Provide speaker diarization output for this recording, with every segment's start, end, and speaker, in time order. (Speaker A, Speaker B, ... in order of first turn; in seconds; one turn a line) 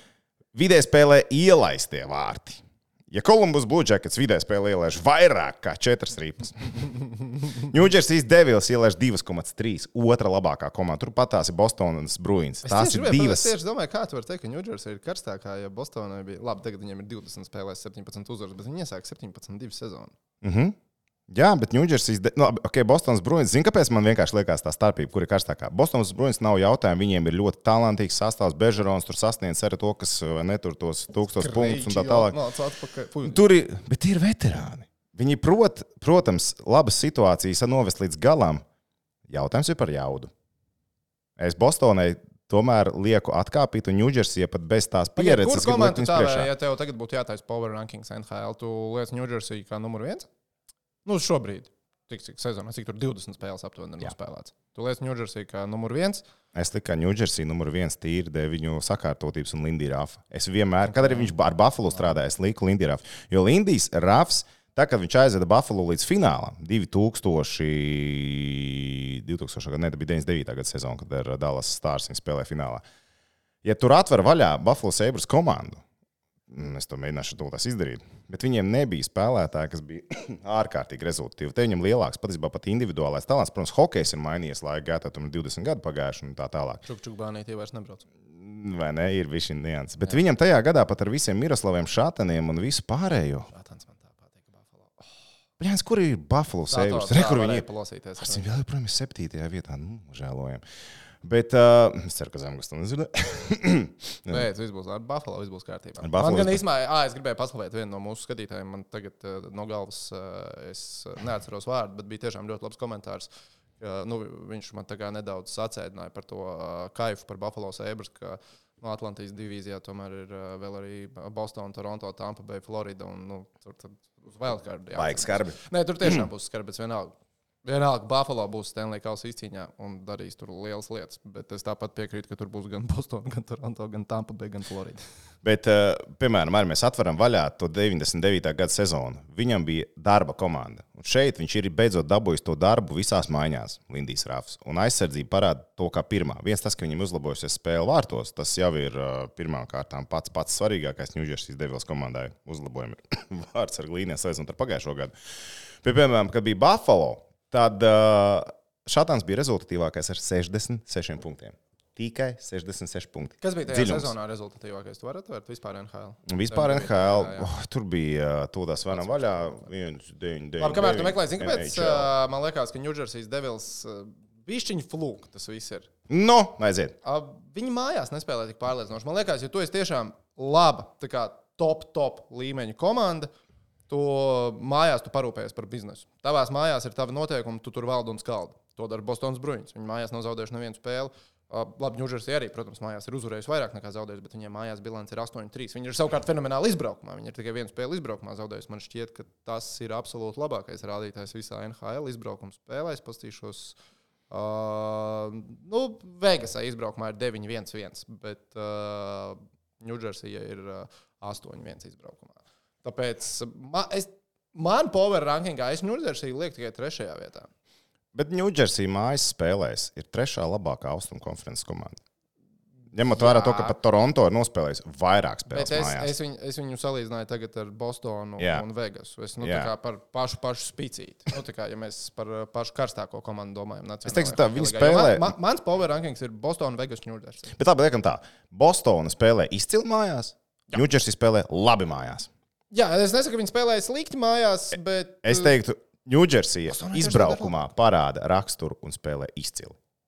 Speaker A: 0.5-6.8
Speaker A: 7.6-13.5
Speaker B: 12.6-20.1
Speaker A: 20.4-20.8
Speaker A: 21.3-32.4
Speaker B: 31.4-33.4
Speaker A: 33.2-38.6
Speaker A: 39.3-40.3
Speaker A: 41.4-46.5
Speaker B: 45.1-50.3
Speaker B: 51.0-56.2
Speaker A: 56.5-72.8
Speaker B: 61.0-61.3
Speaker A: 73.6-75.8
Speaker A: 76.5-86.8
Speaker B: 86.8-88.0
Speaker A: 88.3-93.5
Speaker B: 93.5-95.1
Speaker A: 95.6-97.7
Speaker B: 96.7-98.6
Speaker A: 98.2-100.6
Speaker A: 101.2-104.5
Speaker B: 104.3-113.3
Speaker A: 106.0-106.6
Speaker B: 113.8-135.0
Speaker A: 124.9-126.2
Speaker A: 135.4-155.1
Speaker A: 155.8-164.1
Speaker B: 163.4-167.5
Speaker A: 166.2-172.1
Speaker B: 168.9-169.7
Speaker B: 170.6-175.9
Speaker A: 176.1-176.9
Speaker B: 177.0-183.3
Speaker B: 183.9-203.8
Speaker B: 204.3-217.5
Speaker A: 218.1-222.0
Speaker A: 222.9-226.1
Speaker B: 223.1-223.7
Speaker B: 225.5-237.5
Speaker A: 228.4-228.6
Speaker A: 229.4-229.7
Speaker A: 234.1-235.3
Speaker A: 237.5-242.3
Speaker B: 242.7-245.5
Speaker A: 245.2-249.8
Speaker B: 246.7-247.6